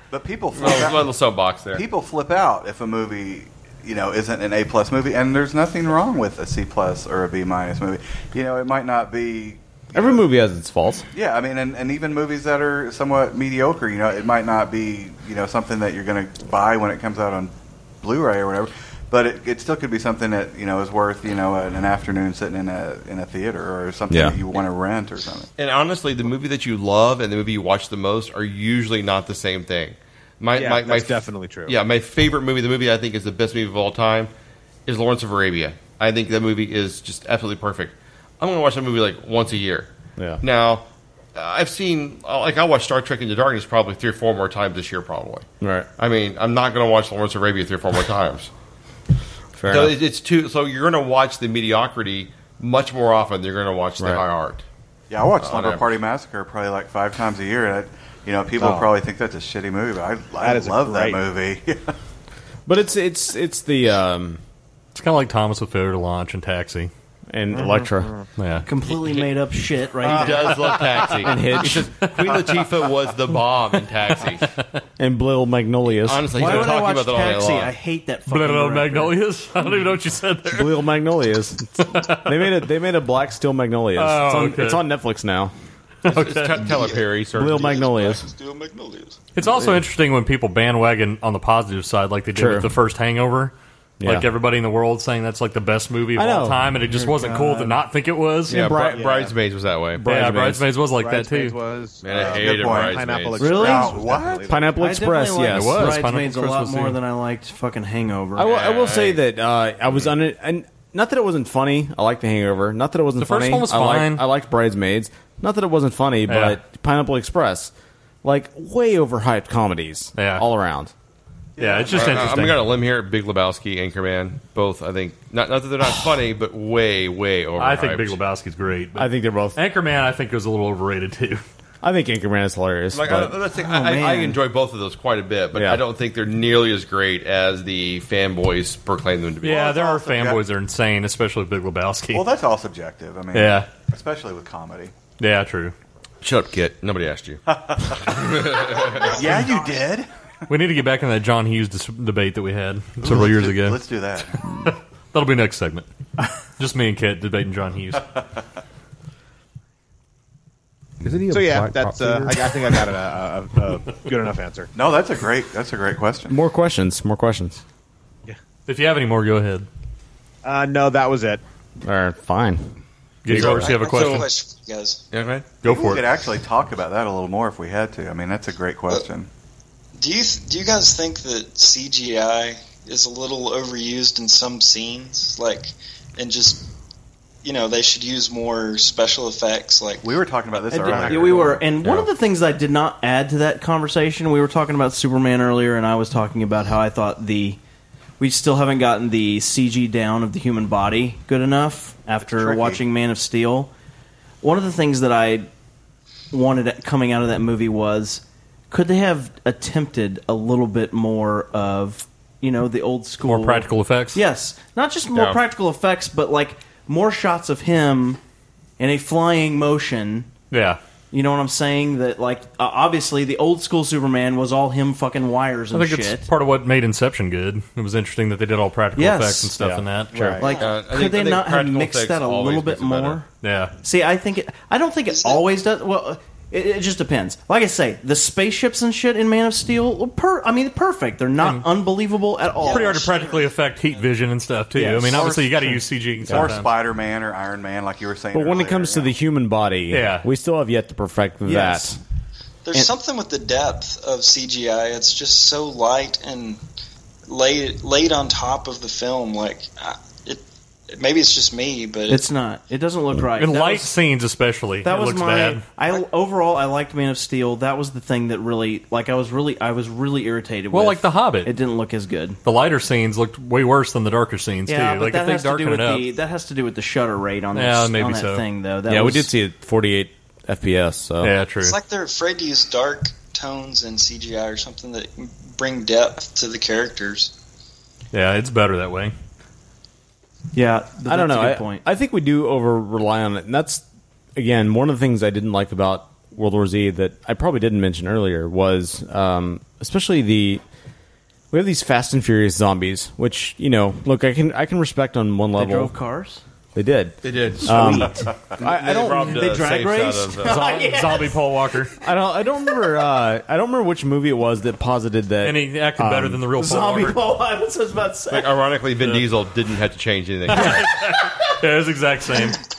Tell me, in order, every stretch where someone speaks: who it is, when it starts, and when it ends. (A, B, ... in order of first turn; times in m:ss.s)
0:00.1-0:01.1 A
0:00.5-0:01.8 B
0:01.7-0:10.2 A
0:09.9-0:11.0 C
0:11.1-0:25.5 A
0:24.1-0:24.4 C
0:25.6-0:34.3 B
0:30.5-0:31.8 D
0:34.9-0:39.9 B
0:40.4-0:45.4 B
0:45.6-0:45.9 C
0:46.0-0:48.5 B
0:49.6-0:49.9 C
0:49.7-0:54.6 B
0:54.0-0:54.2 C
0:55.1-1:01.8 A
0:55.4-0:56.0 B
0:58.6-0:58.9 D
1:00.4-1:01.2 D
1:02.7-1:04.4 C
1:04.9-1:06.9 E
1:07.3-1:08.1 C
1:07.5-1:08.2 D
1:08.4-1:08.7 E
1:08.7-1:10.7 F
1:08.9-1:09.3 B
1:10.0-1:14.4 B
1:11.2-1:11.9 C
1:12.0-1:12.4 E
1:15.0-1:16.6 C
1:15.9-1:17.7 B
1:16.3-1:19.1 F
1:18.3-1:20.8 E
1:20.5-1:25.5 C
1:21.8-1:22.5 E
1:24.0-1:24.8 E
1:26.0-1:26.7 E
1:26.0-1:27.8 B
1:26.7-1:27.0 G
1:27.3-1:28.3 C
1:27.6-1:29.2 G
1:29.3-1:38.8 E
1:29.4-1:29.8 C
1:32.3-1:32.7 C
1:34.0-1:34.3 C
1:36.1-1:36.7 C
1:37.2-1:37.6 F
1:38.5-1:40.0 B
1:38.5-1:39.2 C
1:38.9-1:39.3 D
1:40.0-1:40.6 C
1:40.0-1:41.6 E
1:41.0-1:44.7 D
1:42.0-1:43.6 B
1:42.1-1:44.5 A
1:43.4-1:43.9 F
1:44.5-1:46.0 C
1:44.7-1:48.5 F
1:45.5-1:47.0 E
1:48.4-1:57.7 C
1:48.4-1:49.2 B
1:53.2-1:54.2 E
1:56.3-1:56.6 E
1:58.2-2:00.9 C
2:00.2-2:00.4 E
2:01.6-2:02.6 E
2:01.6-2:01.8 D
2:01.8-2:08.2 B
2:07.6-2:11.4 E
2:09.0-2:09.6 C
2:11.8-2:13.4 C
2:12.9-2:19.7 B
2:13.5-2:14.4 F
2:15.5-2:15.8 C
2:19.4-2:22.3 E
2:19.5-2:20.4 A
2:22.1-2:24.9 A
2:23.3-2:23.7 E
2:25.2-2:25.7 E
2:26.2-2:27.4 B
2:27.5-2:30.1 A
2:28.0-2:29.4 B
2:30.5-2:33.8 E
2:33.0-2:34.4 A
2:34.4-2:35.9 E
2:36.6-2:38.0 E
2:41.2-2:44.7 D
2:44.7-2:46.4 A
2:46.3-2:47.6 C
2:48.7-2:49.7 E
2:50.4-2:51.4 D
2:51.8-2:52.7 C
2:53.2-2:54.3 E
2:53.3-2:53.6 C
2:53.3-2:54.2 B
2:53.4-2:55.0 G
2:55.1-2:55.5 B
2:55.6-2:56.1 E
2:55.6-2:59.3 A
2:59.9-3:06.6 G
3:07.4-3:10.1 G
3:10.0-3:11.6 A
3:10.7-3:17.6 F
3:18.2-3:23.7 F
3:22.2-3:22.8 A
3:24.4-3:25.5 F
3:26.3-3:38.2 F
3:33.2-3:34.2 E
3:38.8-3:40.3 F
3:40.5-3:40.8 E
3:41.1-3:46.3 F
3:45.7-3:50.4 E
3:49.0-3:49.5 F
3:49.6-3:50.4 C
3:50.4-3:53.2 F
3:50.5-3:53.2 B
3:53.4-3:53.7 E
3:53.8-4:03.1 F
3:55.1-3:55.4 G
4:01.4-4:01.7 E
4:02.6-4:04.0 G
4:02.6-4:06.7 E
4:04.7-4:05.8 F
4:06.2-4:09.1 A
4:06.3-4:06.5 C
4:08.3-4:12.0 C
4:09.9-4:10.2 E
4:11.4-4:11.9 F
4:12.6-4:16.6 G
4:17.3-4:22.2 G
4:22.1-4:23.9 F
4:23.3-4:25.7 E
4:24.8-4:32.4 F
4:30.7-4:31.5 E
4:32.4-4:36.1 E
4:34.7-4:39.3 F
4:37.5-4:38.5 E
4:38.9-4:41.3 C
4:41.2-4:41.8 E
4:41.6-4:47.3 G
4:48.1-4:49.1 E
4:50.5-4:51.8 F
4:51.1-4:53.8 C
4:54.4-5:00.6 C
5:01.5-5:05.9 C
5:05.6-5:06.4 F
5:06.7-5:09.3 C
5:07.2-5:10.7 B
5:07.6-5:11.4 F
5:10.6-5:10.8 C
5:10.6-5:11.9 E
5:12.0-5:16.6 C
5:15.4-5:17.2 E
5:16.6-5:18.5 F
5:18.3-5:20.9 B
5:19.0-5:19.2 E
5:20.5-5:22.6 E